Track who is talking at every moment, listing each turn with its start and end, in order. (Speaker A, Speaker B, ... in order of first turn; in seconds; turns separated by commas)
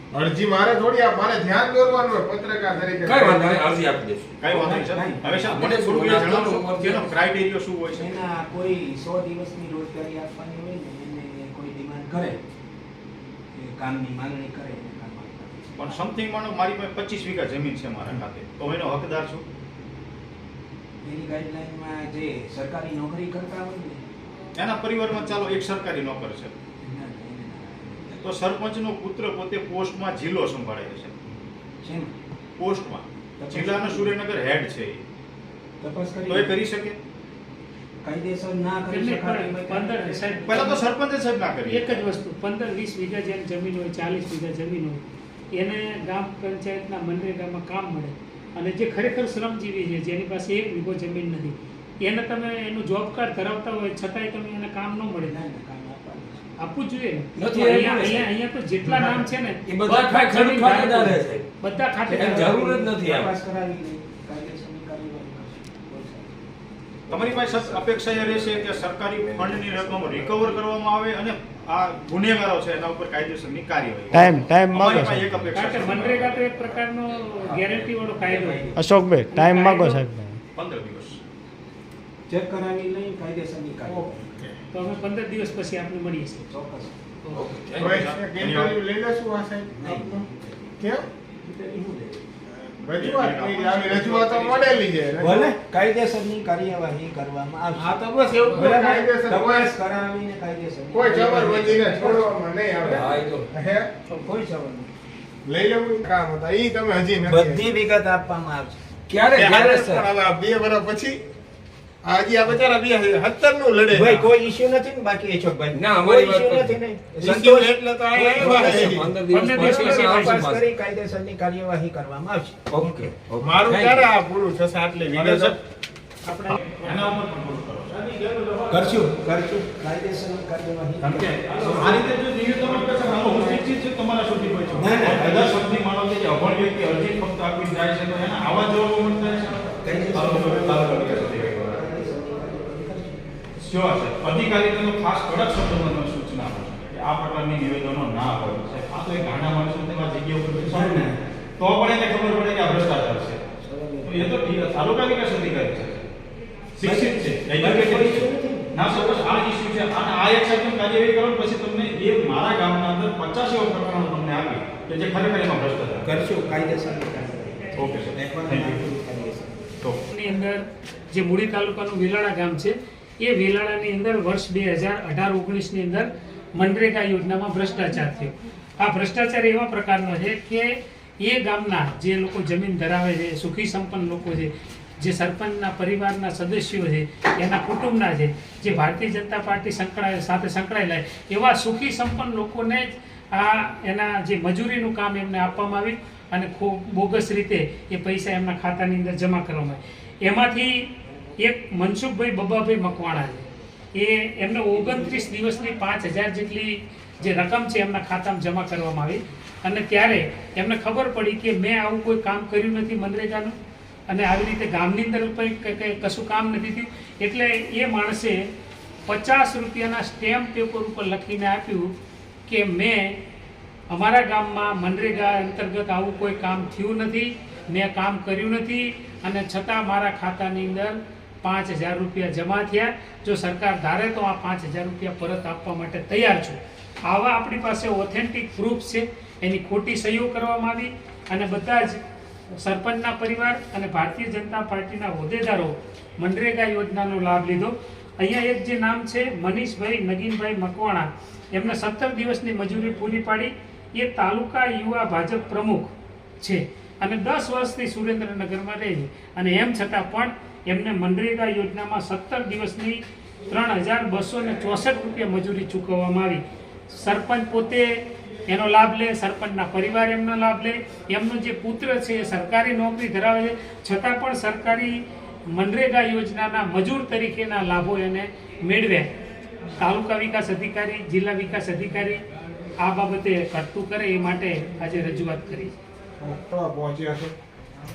Speaker A: 0.1-3.6, Speaker B: 3.0-4.3, Speaker C: 4.4-8.2, Speaker D: 4.5-5.7, Speaker B: 5.5-7.2, Speaker D: 7.9-12.4, Speaker D: 13.6-16.1, Speaker C: 15.8-19.4, Speaker D: 21.0-24.1, Speaker C: 24.6-26.5, Speaker D: 25.3-25.6, Speaker D: 26.8-28.4, Speaker C: 28.2-31.2, Speaker D: 31.8-32.1, Speaker C: 32.6-35.0, Speaker D: 33.4-34.2, Speaker D: 35.8-36.6, Speaker C: 36.3-37.0, Speaker D: 38.0-40.5, Speaker E: 38.9-40.8, Speaker C: 40.5-42.0, Speaker E: 41.6-45.0, Speaker E: 45.5-55.4, Speaker D: 55.2-56.6, Speaker E: 56.6-62.6, Speaker B: 57.4-58.3, Speaker B: 59.7-61.5, Speaker D: 62.1-66.5, Speaker B: 62.1-63.3, Speaker D: 67.1-70.4, Speaker C: 67.1-76.5, Speaker B: 69.2-69.5, Speaker A: 74.1-75.4, Speaker E: 75.5-78.7, Speaker B: 77.3-77.9, Speaker D: 78.2-78.9, Speaker A: 78.8-80.4, Speaker E: 79.3-80.0, Speaker C: 80.5-81.2, Speaker D: 82.3-84.3, Speaker A: 83.8-84.5, Speaker E: 84.7-86.5, Speaker D: 86.5-87.0, Speaker B: 87.3-88.0, Speaker A: 87.8-90.3, Speaker C: 87.9-88.8, Speaker D: 89.7-90.7, Speaker A: 90.8-91.1, Speaker D: 91.4-92.2, Speaker A: 92.5-95.5, Speaker C: 92.9-94.9, Speaker D: 95.2-103.0, Speaker A: 97.8-99.7, Speaker A: 100.9-103.9, Speaker B: 102.8-103.5, Speaker D: 104.1-104.9, Speaker A: 105.5-107.7, Speaker D: 107.3-108.8, Speaker B: 109.1-110.1, Speaker A: 109.3-111.2, Speaker A: 112.0-114.3, Speaker D: 113.9-119.0, Speaker B: 115.7-116.8, Speaker A: 117.2-119.1, Speaker B: 118.4-120.6, Speaker E: 119.3-120.5, Speaker D: 119.6-122.6, Speaker B: 122.7-124.1, Speaker A: 123.4-125.6, Speaker C: 125.1-125.6, Speaker A: 126.2-126.6, Speaker C: 126.5-129.1, Speaker D: 128.7-132.1, Speaker C: 131.0-141.8, Speaker D: 134.8-135.6, Speaker D: 139.7-143.4, Speaker C: 143.6-153.4, Speaker D: 150.7-151.2, Speaker D: 153.6-154.3, Speaker C: 154.1-156.1, Speaker C: 156.8-166.1, Speaker D: 156.8-159.0, Speaker D: 166.0-169.8, Speaker C: 167.8-168.8, Speaker E: 170.1-213.6, Speaker E: 214.1-218.4, Speaker E: 219.1-221.9, Speaker E: 222.5-223.2, Speaker E: 223.9-242.0, Speaker E: 242.6-267.9, Speaker E: 268.5-275.0, Speaker E: 275.5-279.1, Speaker E: 279.8-282.2, Speaker E: 282.8-285.7, Speaker A: 286.2-287.4